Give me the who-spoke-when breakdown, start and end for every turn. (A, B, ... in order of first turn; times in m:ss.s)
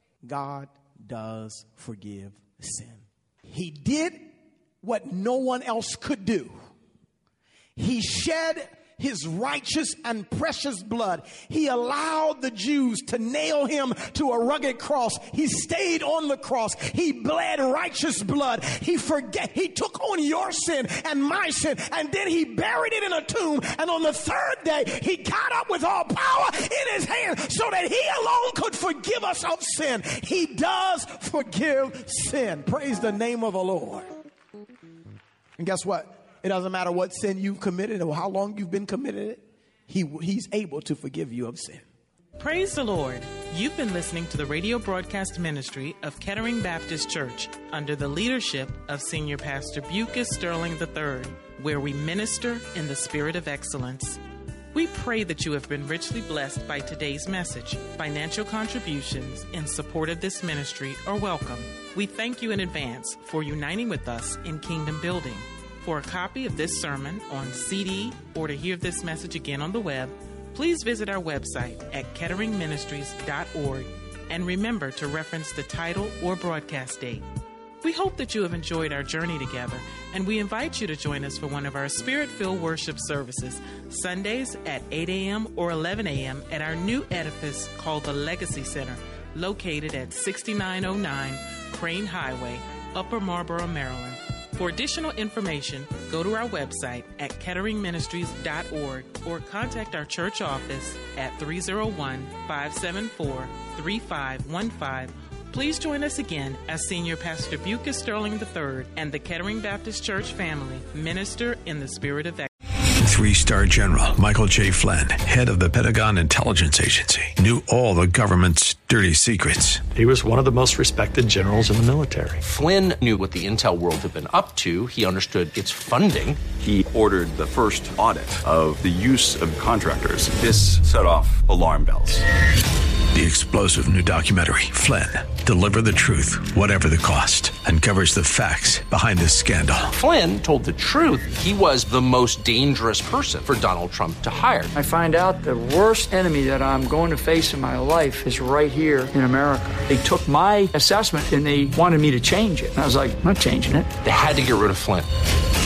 0:00.2-0:04.3 A
0:04.8-0:06.6 A
0:07.8-0:34.1 A
0:35.6-0:41.8 A
0:42.4-0:54.2 B
0:54.7-1:17.2 B
1:17.8-1:52.5 B
1:53.0-1:59.9 C
2:00.0-2:02.4 D
2:02.4-2:06.4 E
2:06.6-2:12.2 F
2:13.1-2:19.9 C
2:19.9-2:24.7 E
2:24.7-2:33.9 G
2:34.0-2:35.1 E